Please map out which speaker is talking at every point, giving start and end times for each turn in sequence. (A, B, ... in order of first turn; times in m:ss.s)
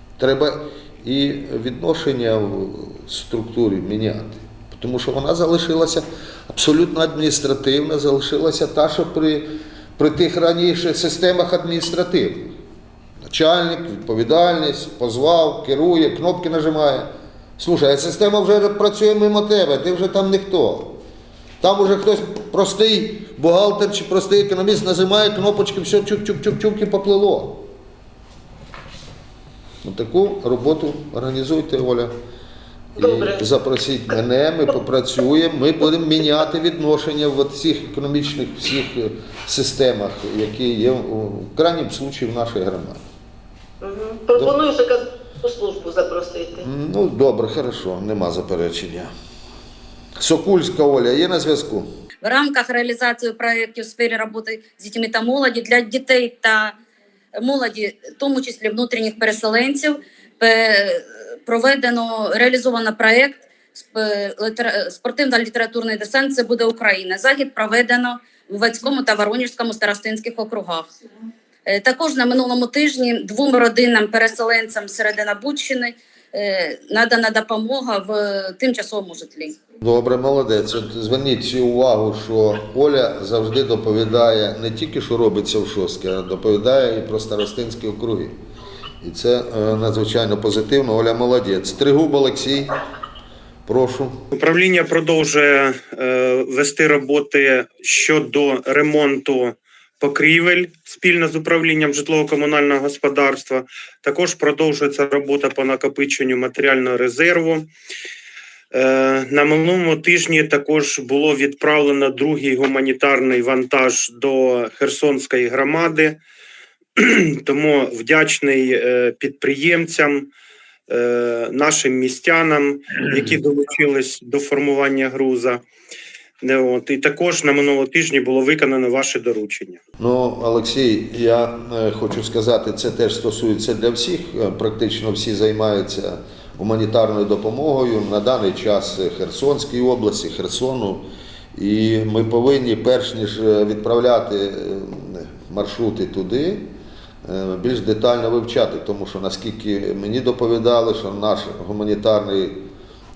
0:00.2-0:12.6 A
0:13.2-0:21.0 A
0:21.6-0:27.7 A
0:29.8-0:32.1 A
0:33.0-0:43.0 A
0:33.0-0:33.4 B
0:43.8-0:46.7 B
0:46.6-0:49.1 A
0:50.2-0:51.9 A
0:52.2-0:56.8 C
0:57.4-1:10.9 C
1:11.7-1:19.6 C
1:19.8-1:28.4 A
1:29.0-1:32.7 A
1:33.7-1:34.2 A
1:34.3-1:47.7 D
1:48.7-1:56.2 D
1:57.0-2:00.3 D
2:00.9-2:05.6 D
2:06.4-2:09.8 D
2:10.0-2:26.7 A
2:27.2-2:32.6 A